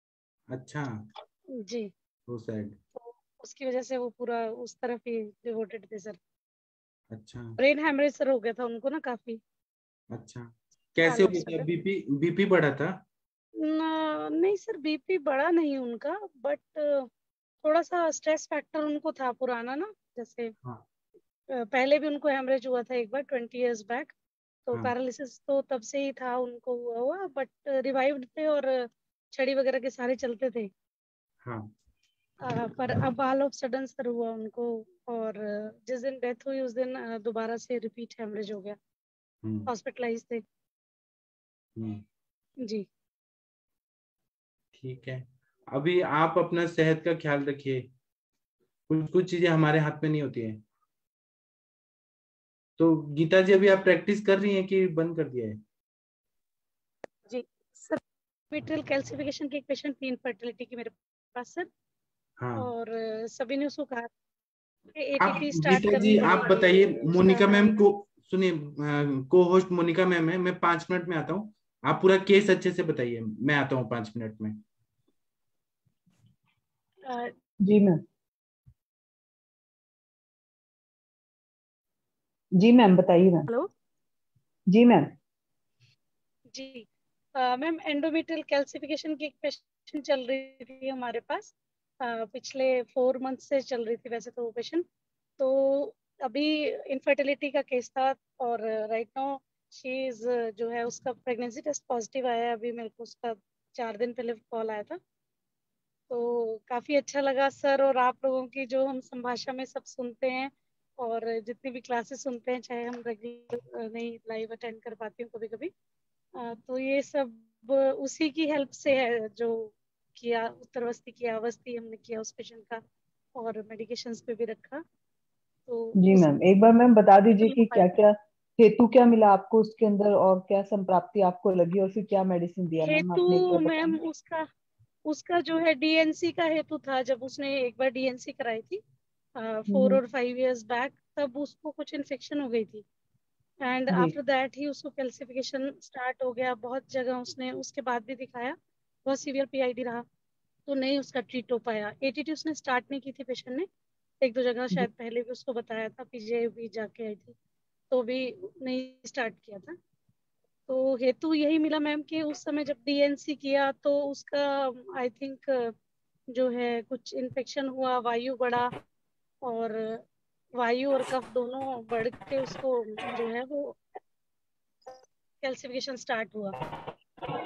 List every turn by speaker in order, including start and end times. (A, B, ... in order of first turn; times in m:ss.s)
0:00.5-0:01.0 A
0:01.6-0:01.9 B
0:02.3-0:02.8 A
0:03.0-0:06.2 B
0:07.1-0:07.6 A
0:07.6-0:09.4 B
0:10.1-0:13.0 A
0:11.1-0:11.7 B
0:13.6-0:17.1 B
0:17.6-0:20.5 B
0:21.7-0:24.1 B
0:24.7-0:30.7 B
0:31.4-0:31.7 A
0:32.4-0:38.8 B
0:39.4-0:39.7 A
0:39.7-0:40.4 B
0:41.8-0:42.0 A
0:44.7-0:47.9 A
0:48.9-0:50.6 A
0:52.8-0:55.6 A
0:57.3-1:01.7 B
1:02.4-1:02.7 A
1:02.6-1:04.1 B
1:05.0-1:07.8 B
1:05.2-1:14.6 A
1:17.1-1:17.3 B
1:22.6-1:23.4 C
1:24.7-1:25.0 C
1:26.5-1:34.8 B
1:35.4-1:45.0 B
1:46.1-1:55.7 B
1:56.4-2:02.8 B
2:03.4-2:04.8 B
2:05.7-2:06.3 B
2:06.0-2:13.8 C
2:07.4-2:08.0 B
2:12.8-2:14.5 B
2:15.1-2:18.8 B
2:19.4-2:22.8 B
2:23.6-2:30.0 B
2:30.7-2:33.7 B
2:34.2-2:37.4 B
2:37.9-2:39.8 B
2:40.7-2:45.7 B
2:46.3-2:48.7 B
2:49.4-2:50.0 B
2:50.6-2:53.8 B
2:55.4-2:56.6 B